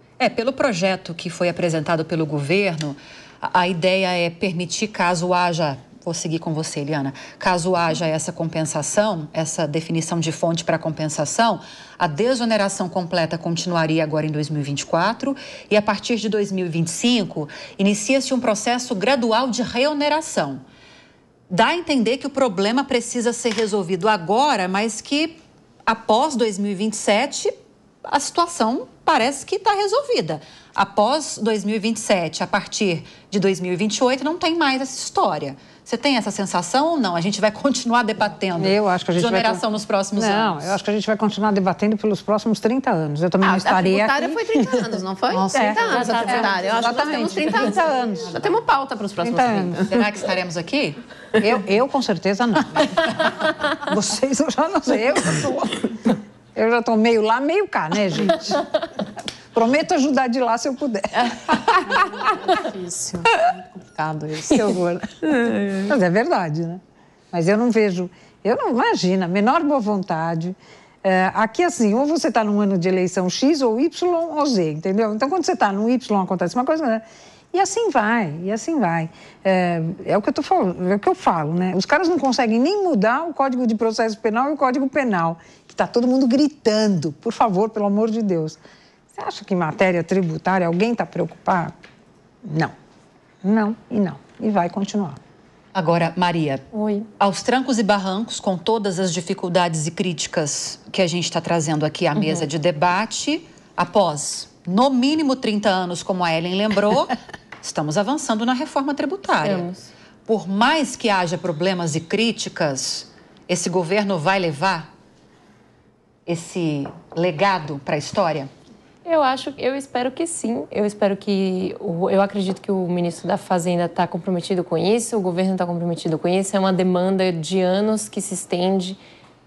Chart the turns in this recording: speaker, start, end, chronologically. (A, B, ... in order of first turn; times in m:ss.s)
0:00.2-0:20.6 A
0:21.5-0:40.7 A
0:38.6-0:39.6 B
0:40.2-0:44.8 B
0:43.4-0:50.0 C
0:45.3-0:46.6 D
0:45.5-0:48.3 B
0:46.0-0:46.5 E
0:49.2-0:49.8 B
0:49.9-0:51.0 A
0:51.4-0:58.6 B
0:59.5-1:01.4 B
1:01.9-1:04.7 D
1:04.5-1:05.1 B
1:05.3-1:05.9 C
1:05.9-1:06.8 B
1:07.3-1:28.6 B
1:29.1-1:31.8 B
1:32.4-1:32.7 B
1:33.4-1:35.2 B
1:35.7-1:36.6 A
1:36.7-1:37.1 E
1:37.2-1:49.7 A
1:42.2-1:42.4 E
1:49.4-1:49.9 E
1:50.3-1:54.9 A
1:56.3-1:58.5 A
1:59.1-2:09.0 E